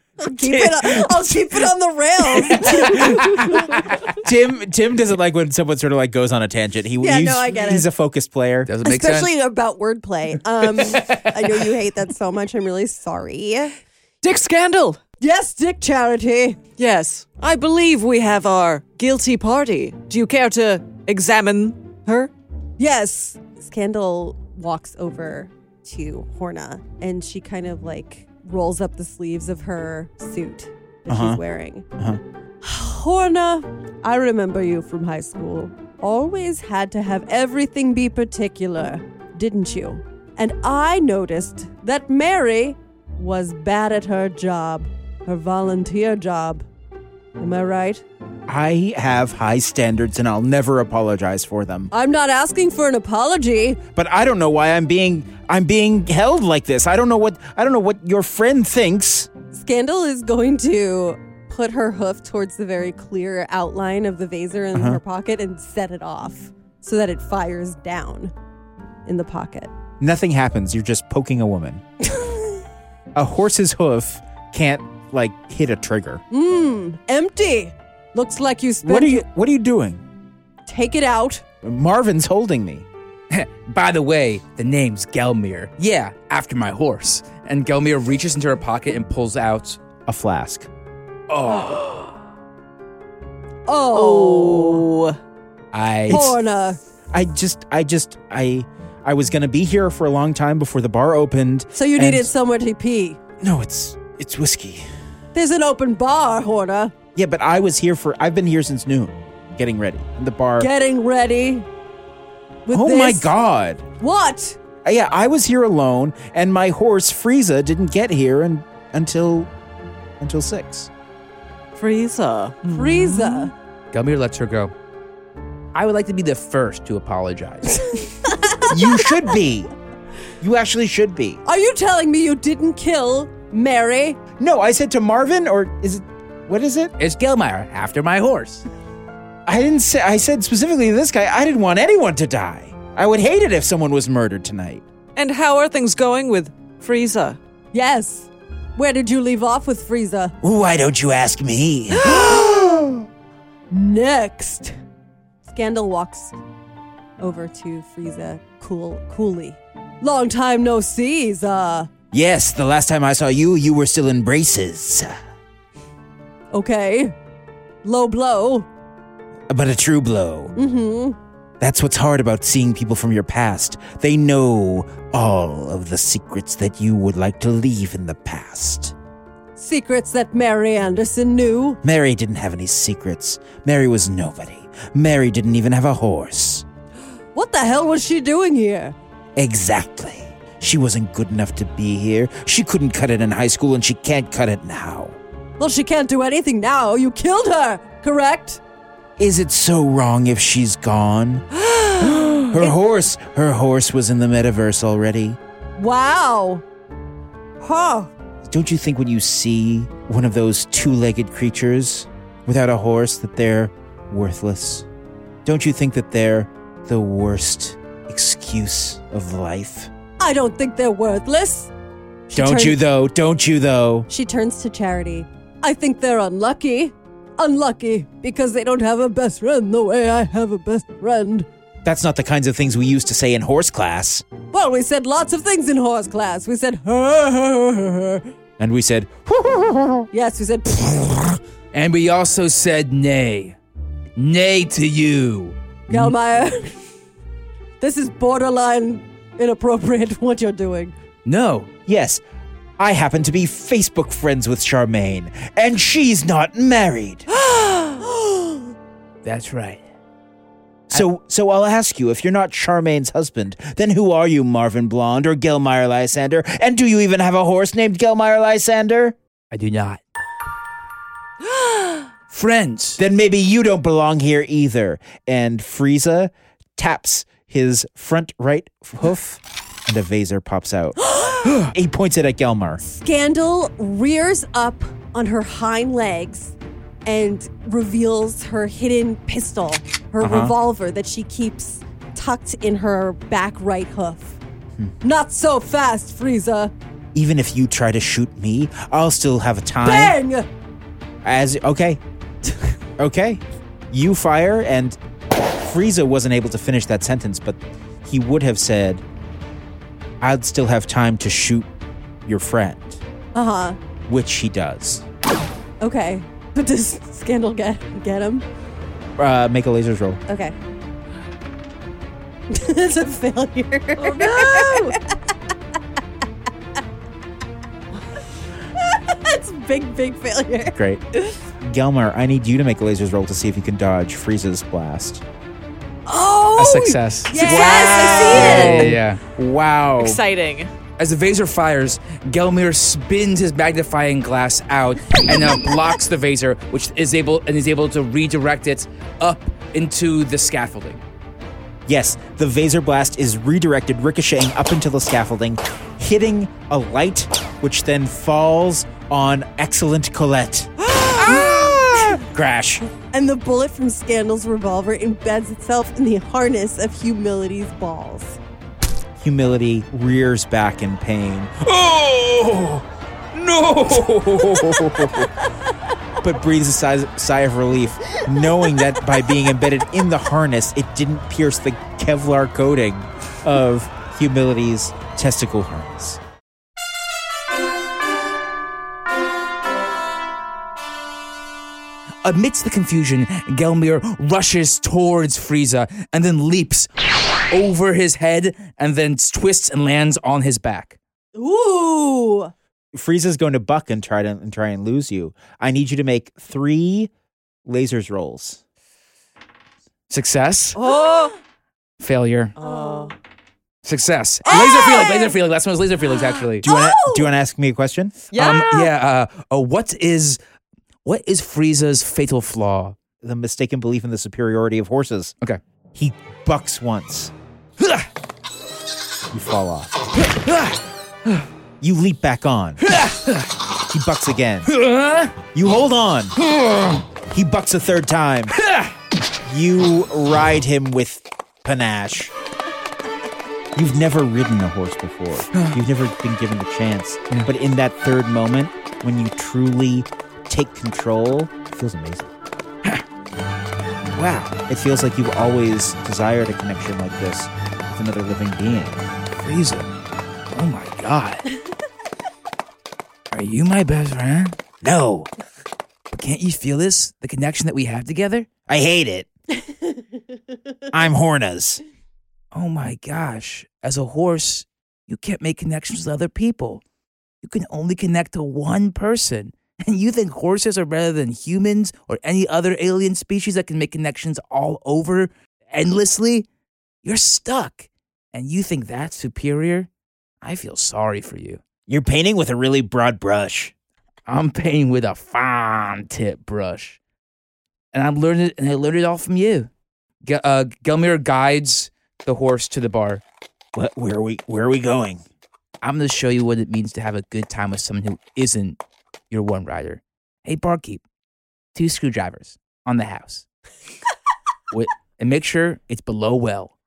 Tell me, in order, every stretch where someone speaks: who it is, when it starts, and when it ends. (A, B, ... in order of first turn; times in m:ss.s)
0:00.2-0:04.1 A
0:00.4-0:01.3 B
0:02.4-0:03.6 B
0:04.1-0:08.7 B
0:07.0-0:07.9 A
0:08.6-0:09.3 C
0:08.8-0:13.8 A
0:10.7-0:11.5 C
0:14.2-0:15.0 D
0:15.2-0:16.6 A
0:16.8-0:21.9 D
0:22.1-0:31.8 A
0:31.1-0:31.4 B
0:32.6-0:46.6 A
0:47.4-0:48.0 A
0:48.5-0:51.9 B
0:51.9-0:53.8 A
0:53.9-0:59.3 B
0:59.5-1:08.3 A
1:04.7-1:05.0 B
1:09.0-1:09.7 A
1:10.0-1:11.8 B
1:12.1-1:12.6 A
1:13.1-1:16.2 B
1:16.3-1:19.2 A
1:18.8-1:20.0 B
1:20.6-1:21.4 A
1:21.6-1:22.8 B
1:23.3-1:29.8 C
1:30.1-1:30.7 B
1:31.3-1:32.1 C
1:33.7-1:34.8 A
1:33.9-1:35.2 D
1:35.7-1:36.4 C
1:36.1-1:36.8 A
1:37.1-1:42.3 B
1:41.7-1:43.2 A
1:43.4-1:44.8 B
1:45.3-1:46.9 A
1:47.1-1:50.7 B
1:50.6-1:51.6 A
1:52.6-1:53.3 A
1:52.7-1:53.9 B
1:54.0-1:54.6 A
1:54.8-1:59.5 B
2:00.2-2:00.9 B
2:01.7-2:03.5 D
2:02.7-2:03.5 A
2:03.9-2:04.7 C
2:05.7-2:08.1 C
2:08.6-2:09.7 B
2:10.4-2:11.4 B
2:11.4-2:14.2 A
2:14.4-2:16.9 B
2:17.0-2:18.6 C
2:19.4-2:24.8 B
2:25.2-2:27.4 D
2:27.7-2:30.3 A
2:30.4-2:33.0 B
2:32.2-2:32.8 A
2:33.7-2:34.7 A
2:35.4-2:36.4 A
2:37.2-2:41.9 A
2:42.1-2:45.1 B
2:46.5-2:47.1 A
2:47.8-2:48.7 A
2:49.5-2:50.5 B
2:50.5-2:51.2 A
2:51.6-2:58.9 B
2:59.6-3:01.8 A
3:01.8-3:06.6 B
3:07.3-3:09.0 A
3:09.4-3:15.2 B
3:15.6-3:18.6 A
3:19.2-3:21.4 B
3:22.0-3:25.4 B
3:25.8-3:26.6 A
3:27.6-3:28.1 A
3:28.4-3:34.9 B
3:35.4-3:39.9 B
3:40.2-3:41.7 A
3:42.3-3:42.8 A
3:42.3-3:44.1 B
3:44.1-3:51.5 A
3:51.8-3:54.2 B
3:54.5-3:58.3 A
3:58.6-4:00.1 B
4:00.1-4:01.2 A
4:01.7-4:03.6 C
4:04.2-4:06.1 C
4:05.9-4:06.8 A
4:07.8-4:10.9 A
4:11.2-4:11.7 C
4:11.8-4:12.2 B
4:12.8-4:17.3 B
4:17.5-4:18.0 D
4:18.2-4:18.6 A
4:19.2-4:19.8 C
4:20.9-4:29.2 B
4:29.5-4:30.0 C
4:32.3-4:33.0 C
4:33.0-4:42.8 B
4:42.8-4:46.5 A
4:47.0-4:54.4 A
4:50.2-4:50.5 B
4:55.0-4:56.7 A
4:57.1-5:00.2 B
4:59.8-5:00.5 A
5:01.2-5:02.0 B
5:03.0-5:05.0 B
5:05.6-5:09.0 B
5:10.2-5:11.7 B
5:12.2-5:13.0 B
5:13.3-5:13.8 A
5:14.1-5:15.0 B
5:15.8-5:18.4 A
5:19.2-5:20.2 B
5:20.3-5:20.5 A
5:22.5-5:25.0 A
5:24.0-5:25.0 D
5:28.8-5:31.3 A
5:30.8-5:31.0 B
5:31.6-5:35.2 B
5:36.1-5:38.9 A
5:36.5-5:39.3 C
5:36.6-5:38.9 D
5:38.3-5:40.2 B
5:40.0-5:40.7 D
5:41.0-5:51.0 C
5:51.9-6:02.9 B
6:00.9-6:01.7 D
6:03.1-6:08.4 A
6:09.2-6:12.6 B
6:11.8-6:12.8 C
6:13.4-6:15.1 C
6:13.9-6:15.3 B
6:16.2-6:26.2 B
6:32.2-6:36.9 C
6:37.5-6:41.0 C
6:41.4-6:42.5 A
6:42.9-6:47.1 B
6:47.6-6:48.6 B
6:50.1-6:50.9 C
6:50.8-6:51.3 A
6:50.8-6:51.3 D
6:52.0-6:52.5 C
6:52.6-6:53.1 D
6:52.6-6:53.1 A
6:53.8-6:56.6 C
6:54.5-6:55.3 A
6:56.6-6:58.2 B
6:56.6-6:57.3 A
6:58.3-6:58.9 D
6:58.3-7:00.4 C
7:01.0-7:03.0 C
7:03.2-7:05.3 B
7:05.9-7:07.3 B
7:07.8-7:08.1 C
7:09.3-7:10.0 B
7:10.2-7:11.4 C
7:11.8-7:12.8 B
7:12.8-7:13.5 C
7:13.9-7:14.7 B
7:14.6-7:15.4 C
7:15.5-7:16.4 B
7:16.4-7:17.0 C
7:17.3-7:18.6 B
7:18.6-7:18.9 C
7:19.4-7:22.3 B
7:23.7-7:32.3 B
7:34.2-7:39.0 B
7:39.4-7:39.9 C
7:40.5-7:41.5 C
7:43.3-7:44.6 C
7:44.8-7:45.3 B
7:46.1-7:48.5 C
7:48.7-7:49.3 B
7:50.9-7:51.8 B
7:52.5-7:56.8 C
7:57.4-8:06.5 C
8:07.0-8:09.9 C
8:10.4-8:11.6 C
8:11.9-8:13.7 B
8:14.3-8:17.0 C
8:17.9-8:19.7 C
8:20.2-8:23.2 C
8:23.7-8:25.2 B
8:25.8-8:31.0 C
8:31.7-8:33.4 C
8:34.7-8:36.7 C